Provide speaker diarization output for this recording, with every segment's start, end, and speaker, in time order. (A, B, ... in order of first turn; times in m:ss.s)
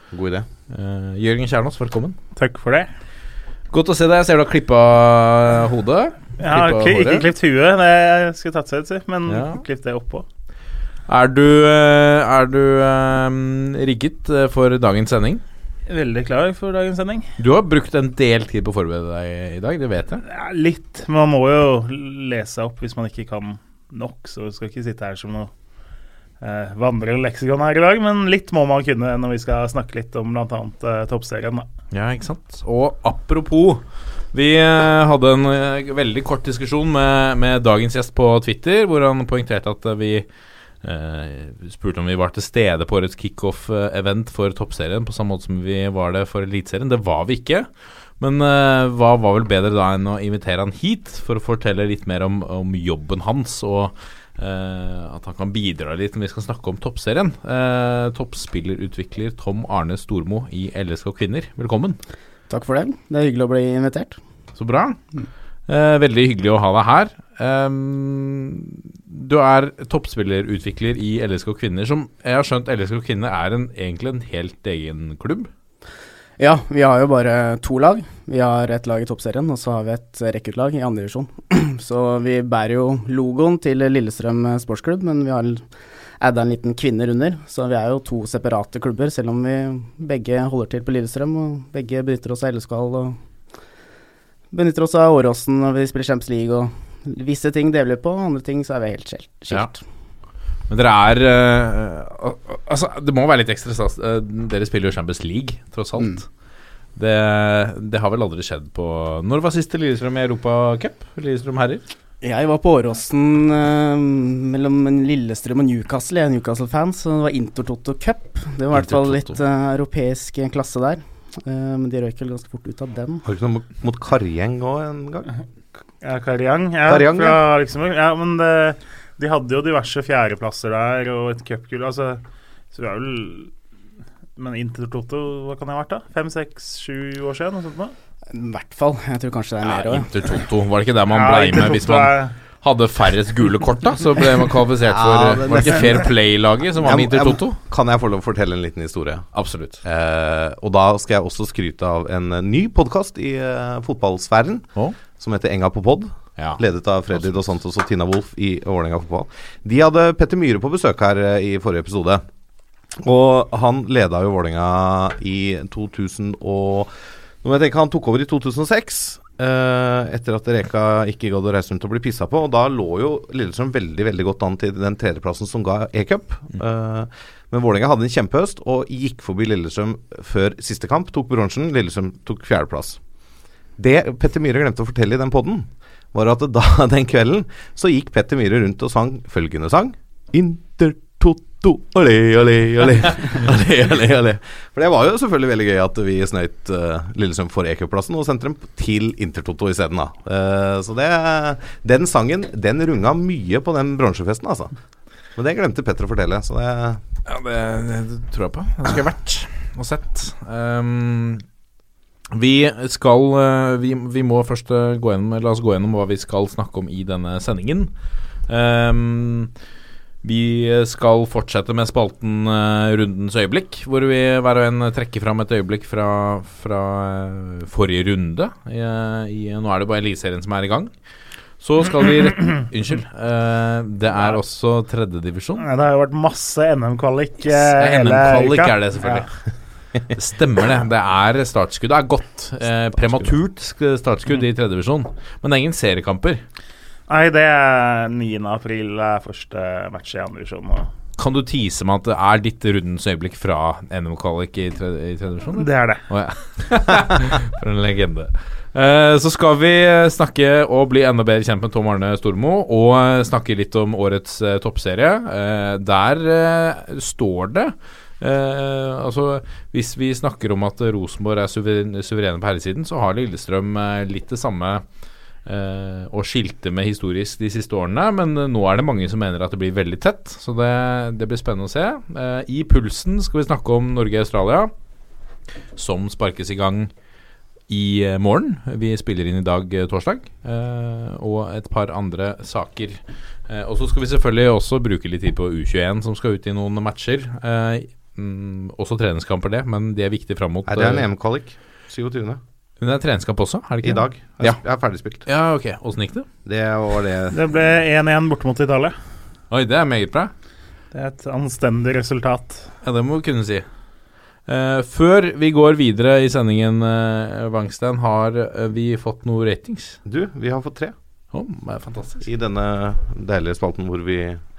0:00.1-0:00.4 A
0:00.7-0:02.2 B
0:02.4-0:02.9 C
0:03.7-0:07.3 B
0:06.4-0:10.2 C
0:09.3-0:09.6 B
0:11.1-0:15.4 B
0:15.9-0:17.3 C
0:17.4-0:20.2 B
0:20.2-0:25.5 C
0:26.4-0:31.7 C
0:31.9-0:40.2 B
0:40.8-1:02.0 B
1:02.5-1:04.2 D
1:04.5-1:05.0 B
1:05.7-1:15.5 B
1:16.4-1:25.6 D
1:26.2-1:33.2 D
1:34.5-1:39.8 D
1:40.7-1:46.2 B
1:46.9-1:51.8 B
1:52.2-2:03.2 D
1:58.7-1:59.4 B
2:03.2-2:05.3 A
2:06.0-2:13.5 C
2:06.8-2:07.4 A
2:14.4-2:17.9 C
2:18.3-2:20.1 D
2:19.6-2:27.6 B
2:21.1-2:22.4 C
2:24.8-2:26.1 A
2:26.8-2:29.3 A
2:29.3-2:29.8 B
2:29.8-2:42.2 A
2:43.0-3:03.0 A
3:03.8-3:24.8 A
3:25.3-3:27.0 A
3:27.2-3:31.4 B
3:32.3-3:37.9 B
3:38.5-3:39.5 B
3:40.2-3:50.9 B
3:51.6-3:55.6 B
3:55.6-3:59.3 C
3:57.5-3:59.3 B
4:00.1-4:06.4 B
4:03.0-4:03.3 A
4:07.1-4:10.9 C
4:11.2-4:34.8 B
4:15.6-4:16.0 C
4:35.4-4:44.7 B
4:45.7-4:46.9 B
4:47.7-5:01.1 B
5:00.7-5:02.4 A
5:02.8-5:04.6 B
5:03.8-5:05.2 A
5:05.2-5:06.3 B
5:06.4-5:07.4 A
5:07.3-5:09.0 C
5:09.5-5:10.3 B
5:10.9-5:12.7 C
5:12.8-5:13.6 B
5:14.4-5:20.0 B
5:20.0-5:20.9 A
5:21.3-5:22.2 B
5:22.2-5:24.4 A